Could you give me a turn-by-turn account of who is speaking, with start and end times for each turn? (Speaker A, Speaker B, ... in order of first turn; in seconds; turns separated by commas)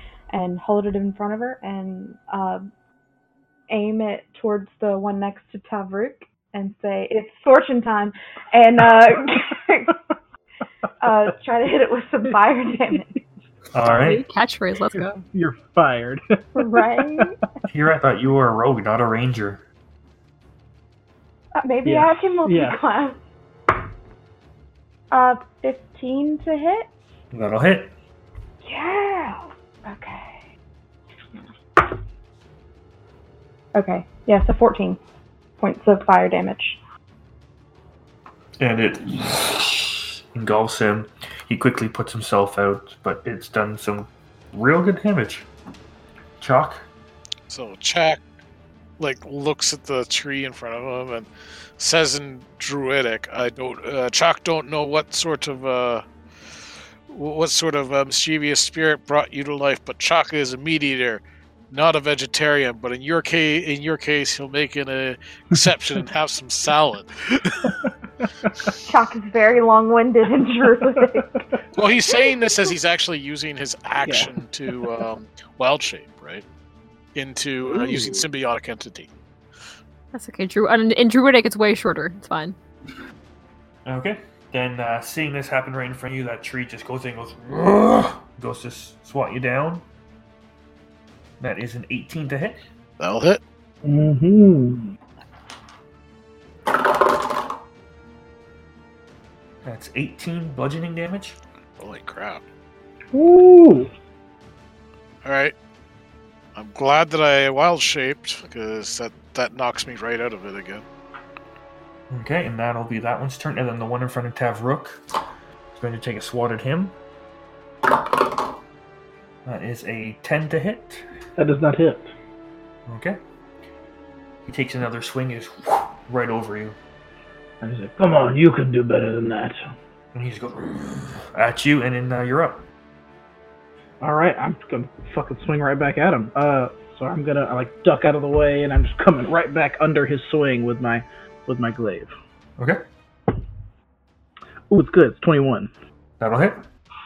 Speaker A: 0.3-2.7, Speaker A: 3.7-10.0, Speaker A: 11.0-13.1, Speaker B: 13.7-14.2, Speaker C: 13.9-15.2, Speaker D: 15.3-17.2, Speaker A: 16.5-17.4, Speaker B: 17.7-19.6, Speaker A: 21.6-23.2, Speaker D: 21.8-22.8, Speaker A: 25.1-26.9, Speaker B: 27.3-27.9, Speaker A: 28.6-30.4, Speaker A: 33.7-35.0, Speaker A: 35.6-36.8, Speaker B: 38.6-45.5, Speaker B: 46.4-46.9, Speaker E: 47.5-48.2, Speaker E: 49.0-67.8, Speaker A: 68.8-71.4, Speaker E: 71.7-76.4, Speaker D: 74.0-75.0, Speaker E: 77.1-79.1, Speaker D: 77.7-78.2, Speaker C: 80.1-82.5, Speaker B: 83.8-89.8, Speaker B: 91.4-92.6, Speaker E: 93.0-93.4, Speaker D: 93.8-95.0, Speaker B: 99.6-101.4, Speaker E: 101.8-102.4, Speaker D: 103.1-103.9, Speaker E: 105.2-105.5, Speaker E: 106.5-110.8, Speaker B: 112.1-115.0, Speaker B: 115.7-117.0, Speaker B: 119.4-121.0, Speaker D: 121.4-122.1, Speaker B: 122.9-123.2, Speaker B: 124.5-126.8, Speaker D: 127.6-129.6, Speaker B: 130.1-132.7, Speaker D: 134.0-142.1, Speaker D: 144.7-145.7, Speaker B: 146.2-146.6